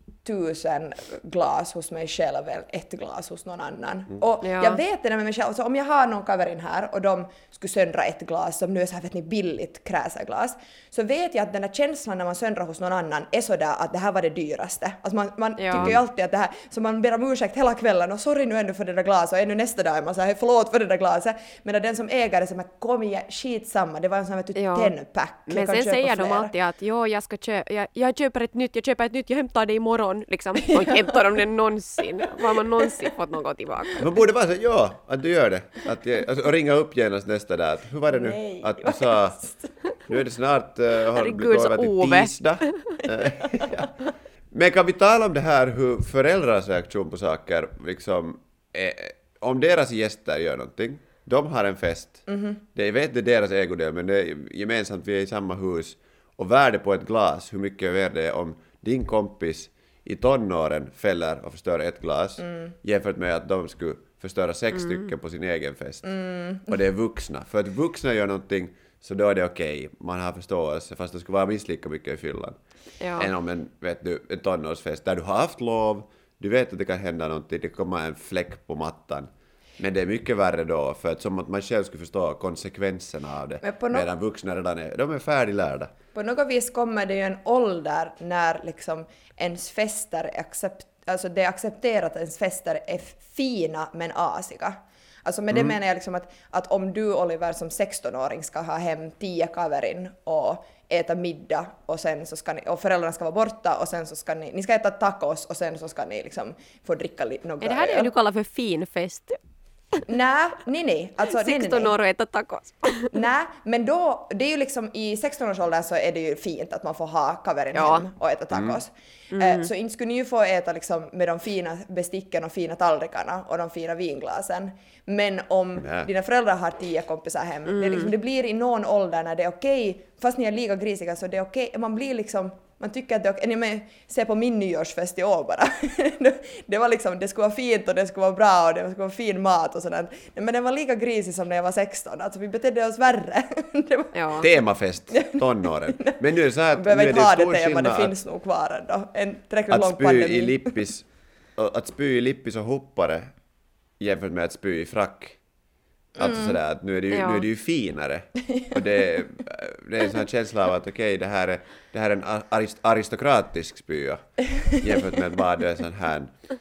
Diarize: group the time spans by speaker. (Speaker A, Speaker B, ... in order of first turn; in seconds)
Speaker A: 0.2-26.5, 30.6-31.4, 32.0-33.1, 38.1-39.8, 43.2-43.9, 52.3-52.6, 62.4-62.7, 66.0-66.7, 83.6-84.1, 86.2-108.1, 110.1-111.9, 113.1-144.2, 145.2-150.8, 156.2-156.6, 158.5-158.7
Speaker B: 4.4-4.8, 15.6-15.9, 24.6-24.9, 25.5-34.0, 41.1-42.7, 73.0-73.3, 107.6-109.4, 111.3-113.1, 117.7-118.0, 119.3-119.7, 127.7-128.1, 144.1-144.5, 157.1-157.4
Speaker C: 34.0-39.4, 40.1-43.9, 44.5-66.0, 66.7-72.6, 73.2-85.9, 95.5-95.8, 118.5-118.8, 125.8-126.1, 144.4-148.1, 149.7-153.3, 154.0-155.4, 156.2-166.4